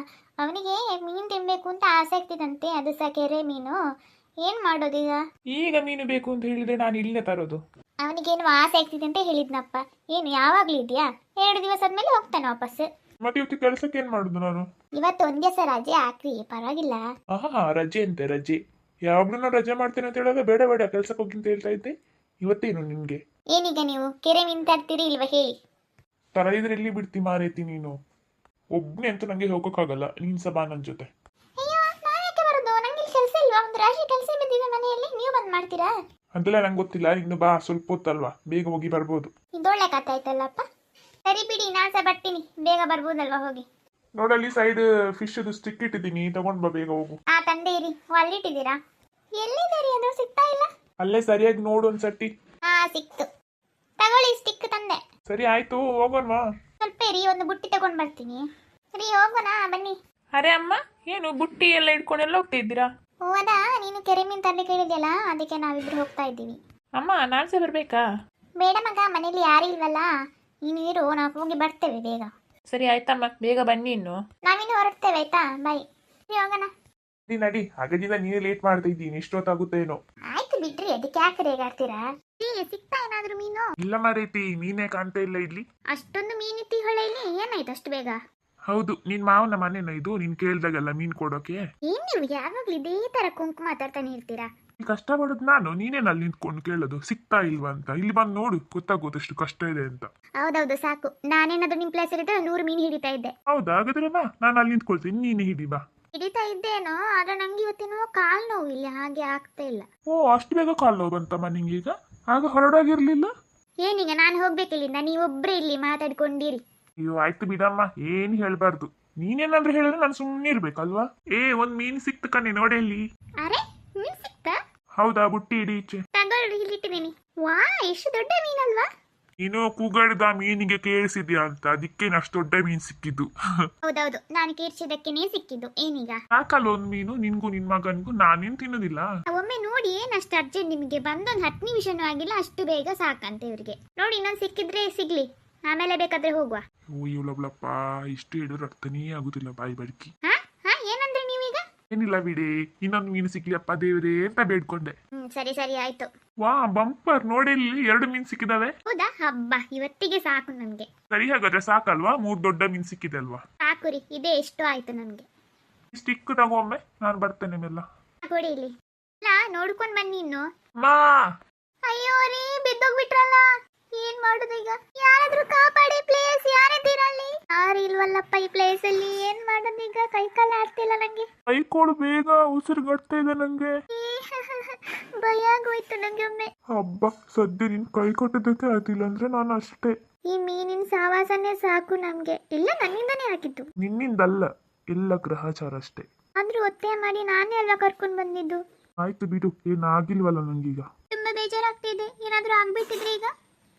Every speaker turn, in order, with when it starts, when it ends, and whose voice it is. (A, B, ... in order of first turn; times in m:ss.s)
0:00.4-0:03.8 A
0:04.4-0:05.2 A
0:05.6-0:07.6 B
0:08.0-0:12.9 A
0:13.2-0:14.7 B
0:15.0-0:17.0 A
0:17.3-0:21.9 B
0:22.4-0:23.2 B
0:23.5-0:25.5 A
0:26.4-0:27.9 B
0:28.7-0:31.1 B
0:31.6-0:35.9 A
0:36.4-0:39.3 B
0:39.6-0:40.6 A
0:41.3-0:43.6 A
0:44.2-0:47.2 B
0:47.3-0:48.8 A
0:49.4-0:50.7 A
0:51.0-0:52.3 B
0:52.7-0:53.3 A
0:54.0-0:55.0 A
0:55.3-0:56.4 B
0:56.8-0:58.4 A
0:59.0-0:59.9 A
1:00.4-1:02.8 C
1:03.2-1:06.6 A
1:07.0-1:08.0 C
1:08.6-1:10.1 A
1:10.7-1:12.3 A
1:12.7-1:14.2 C
1:14.4-1:16.7 A
1:17.3-1:20.0 B
1:20.3-1:23.6 A
1:23.8-1:25.6 B
1:25.9-1:28.2 A
1:28.7-1:31.6 B
1:31.9-1:34.5 A
1:34.8-1:40.1 B
1:40.4-1:43.3 A
1:43.5-1:45.8 B
1:46.1-1:49.9 A
1:50.1-1:53.3 B
1:53.8-1:56.6 A
1:57.0-2:03.0 B
2:03.4-2:04.6 A
2:05.0-2:06.0 B
2:06.2-2:08.9 A
2:09.4-2:13.3 B
2:13.8-2:16.2 A
2:16.3-2:19.1 B
2:19.3-2:26.6 A
2:27.0-2:30.1 B
2:30.2-2:31.6 A
2:31.9-2:34.9 B
2:35.2-2:36.1 A
2:36.4-2:38.7 B
2:38.9-2:40.9 A
2:41.1-2:43.4 B
2:43.6-2:45.2 A
2:45.9-2:47.8 B
2:48.3-2:50.4 A
2:50.8-2:51.2 B
2:51.9-3:01.3 A
3:01.5-3:03.7 B
3:03.9-3:06.5 A
3:06.7-3:09.9 B
3:10.3-3:13.6 A
3:13.8-3:16.0 B
3:16.4-3:18.6 A
3:19.0-3:20.8 B
3:21.1-3:23.3 A